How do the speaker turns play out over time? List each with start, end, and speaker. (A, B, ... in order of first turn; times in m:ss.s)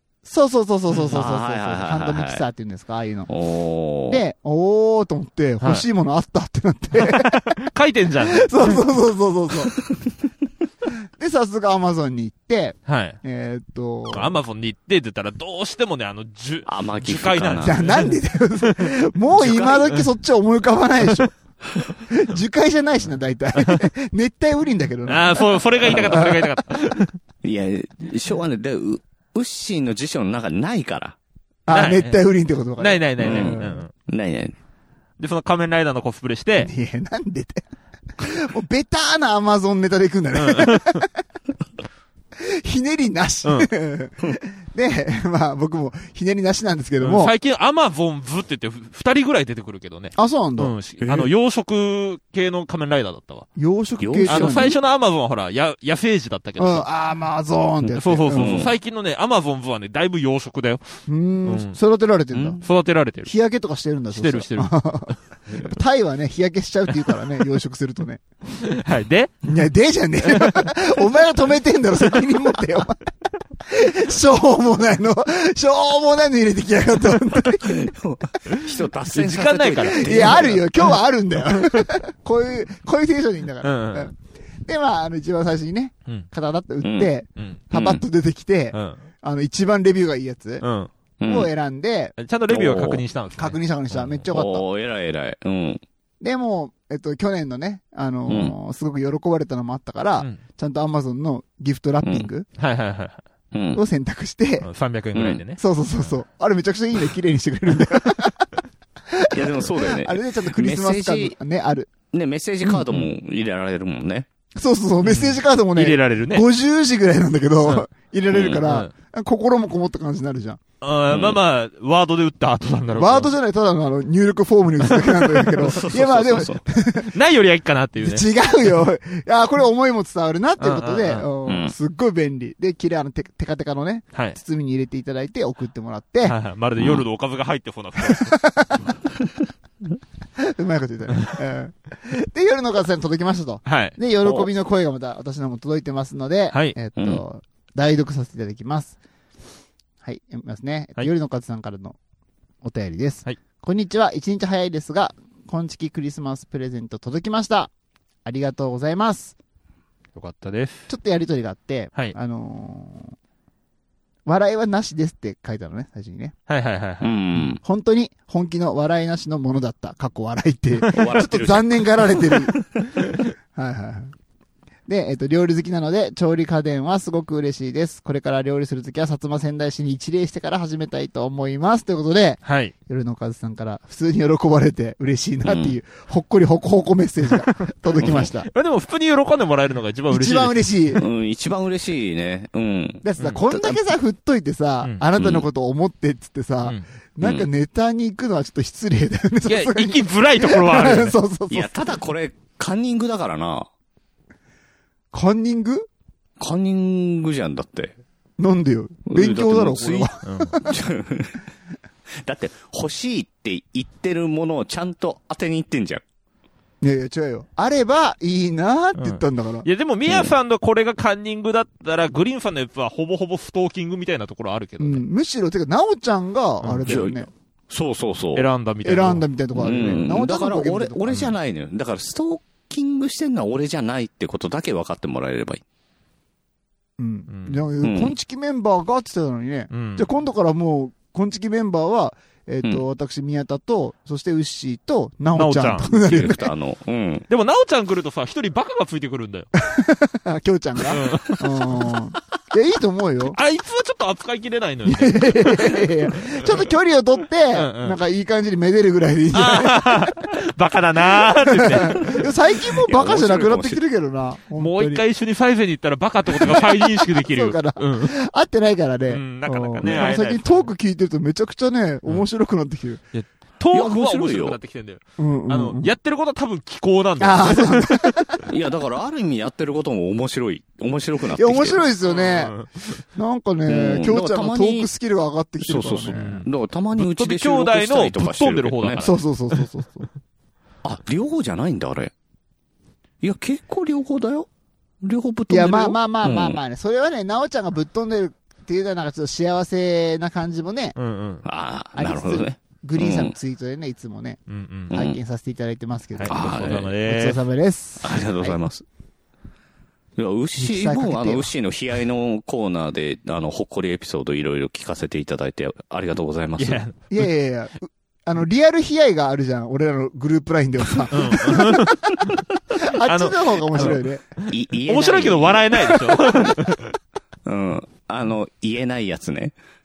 0:00.2-0:03.3 A
0:00.9-0:01.2 B
0:01.1-0:02.4 C
0:03.3-0:04.2 C
0:04.1-0:07.5 A
0:05.6-0:05.8 B
0:07.0-0:08.8 B
0:08.2-0:09.8 A
0:11.2-0:14.3 A
0:12.8-0:13.2 B
0:14.1-0:18.9 B
0:16.6-0:17.9 C
0:17.6-0:21.3 A
0:19.4-0:19.9 C
0:22.1-0:26.5 A
0:25.1-0:27.2 B
0:27.4-0:31.2 C
0:31.6-0:33.8 A
0:31.7-0:32.2 B
0:32.8-0:33.9 B
0:33.2-0:34.6 C
0:35.2-0:36.7 B
0:36.6-0:37.6 A
0:38.2-0:41.1 A
0:40.3-0:41.0 B
0:42.4-0:47.3 A
0:43.4-0:43.7 B
0:47.0-0:53.5 B
0:50.2-0:50.7 A
0:51.0-0:51.3 C
0:53.6-0:54.8 A
0:54.0-0:54.7 C
0:54.3-0:56.8 B
0:56.6-0:58.6 A
0:57.9-1:00.8 B
0:58.3-0:58.7 C
1:01.1-1:02.6 A
1:01.4-1:01.8 B
1:02.4-1:03.3 B
1:03.2-1:08.2 A
1:04.1-1:05.7 B
1:08.6-1:09.4 B
1:09.4-1:13.0 A
1:10.2-1:10.7 B
1:13.6-1:17.8 A
1:17.6-1:20.7 C
1:18.5-1:20.9 B
1:19.9-1:24.1 A
1:23.6-1:24.1 B
1:24.6-1:30.6 A
1:26.8-1:27.1 C
1:27.4-1:27.6 B
1:27.7-1:28.0 C
1:28.7-1:29.0 B
1:30.6-1:30.9 B
1:31.2-1:31.5 C
1:31.2-1:32.1 A
1:32.2-1:34.2 B
1:32.5-1:33.0 C
1:33.4-1:34.6 A
1:34.3-1:35.8 C
1:36.2-1:42.5 A
1:38.3-1:38.5 C
1:42.0-1:42.3 C
1:42.6-1:43.2 B
1:43.5-1:43.8 C
1:43.7-1:44.7 A
1:44.6-1:45.6 B
1:45.1-1:45.4 C
1:45.6-1:48.5 A
1:49.1-1:51.9 A
1:49.3-1:51.3 C
1:52.1-1:54.3 C
1:54.6-2:00.6 A
1:55.0-1:56.4 B
1:58.3-1:58.6 C
1:58.6-1:58.9 B
2:00.8-2:03.3 B
2:01.1-2:01.4 C
2:03.0-2:07.1 A
2:04.8-2:05.5 B
2:05.6-2:06.6 C
2:07.0-2:08.3 B
2:08.0-2:16.4 A
2:10.6-2:11.3 B
2:11.4-2:11.7 C
2:16.2-2:18.4 B
2:18.0-2:18.8 A
2:20.4-2:29.0 A
2:23.6-2:24.0 B
2:26.5-2:26.8 B
2:27.0-2:27.2 C
2:30.0-2:32.0 A
2:32.6-2:37.7 A
2:38.2-2:39.3 A
2:40.2-2:40.9 B
2:40.9-2:43.1 A
2:44.2-2:46.3 A
2:46.5-2:47.1 B
2:47.0-2:47.6 C
2:47.6-2:52.6 A
2:50.9-2:52.4 C
2:53.5-2:54.1 A
2:54.9-3:08.5 A
3:02.4-3:02.7 B
3:05.4-3:05.8 C
3:08.0-3:10.6 B
3:08.0-3:08.3 C
3:10.1-3:11.0 A
3:11.0-3:13.8 C
3:13.0-3:21.7 A
3:15.2-3:15.5 C
3:17.2-3:17.5 C
3:19.4-3:21.2 B
3:21.5-3:23.7 C
3:25.1-3:25.8 A
3:26.4-3:27.9 C
3:28.4-3:30.8 A
3:29.1-3:30.1 C
3:30.2-3:30.6 B
3:30.6-3:31.4 C
3:32.2-3:36.0 C
3:36.8-3:39.6 A
3:39.0-3:45.0 B
3:40.0-3:40.3 C
3:44.8-3:47.3 A
3:46.6-3:47.0 B
3:46.8-3:48.5 C
3:48.3-3:50.0 B
3:48.8-3:51.2 A
3:49.5-3:55.6 C
3:57.0-4:06.5 A
3:57.3-3:57.6 B
3:57.8-3:58.1 C
3:59.7-4:00.1 B
4:05.3-4:05.9 B
4:05.9-4:07.2 C
4:07.3-4:09.5 B
4:09.6-4:13.4 A
4:10.9-4:11.4 B
4:13.3-4:15.8 B
4:14.8-4:20.2 A
4:17.5-4:18.0 B
4:19.3-4:22.3 B
4:21.4-4:25.0 A
4:22.8-4:23.8 C
4:24.6-4:28.1 B
4:26.4-4:33.0 A
4:29.1-4:30.7 B
4:33.1-4:38.3 B
4:33.7-4:34.6 C
4:35.2-4:35.9 A
4:37.2-4:38.5 A
4:38.4-4:41.8 C
4:41.4-4:46.4 A
4:42.0-4:43.0 B
4:43.6-4:44.9 C
4:45.6-4:49.0 C
4:46.1-4:49.6 B
4:49.0-4:50.1 A
4:50.8-4:52.1 C
4:53.2-4:54.5 C
4:55.0-4:56.6 C
4:55.5-5:01.0 A
5:01.0-5:01.4 B
5:01.4-5:03.4 C
5:02.0-5:04.4 A
5:04.5-5:04.9 B
5:04.9-5:05.2 C
5:04.9-5:08.6 A
5:06.1-5:07.4 B
5:06.3-5:06.9 C
5:08.0-5:08.8 C
5:10.2-5:16.8 C
5:10.6-5:11.5 A
5:16.6-5:17.3 B
5:17.1-5:22.0 A
5:21.1-5:22.4 B
5:22.8-5:24.2 A
5:23.0-5:26.9 B
5:24.5-5:26.5 C
5:27.4-5:29.5 C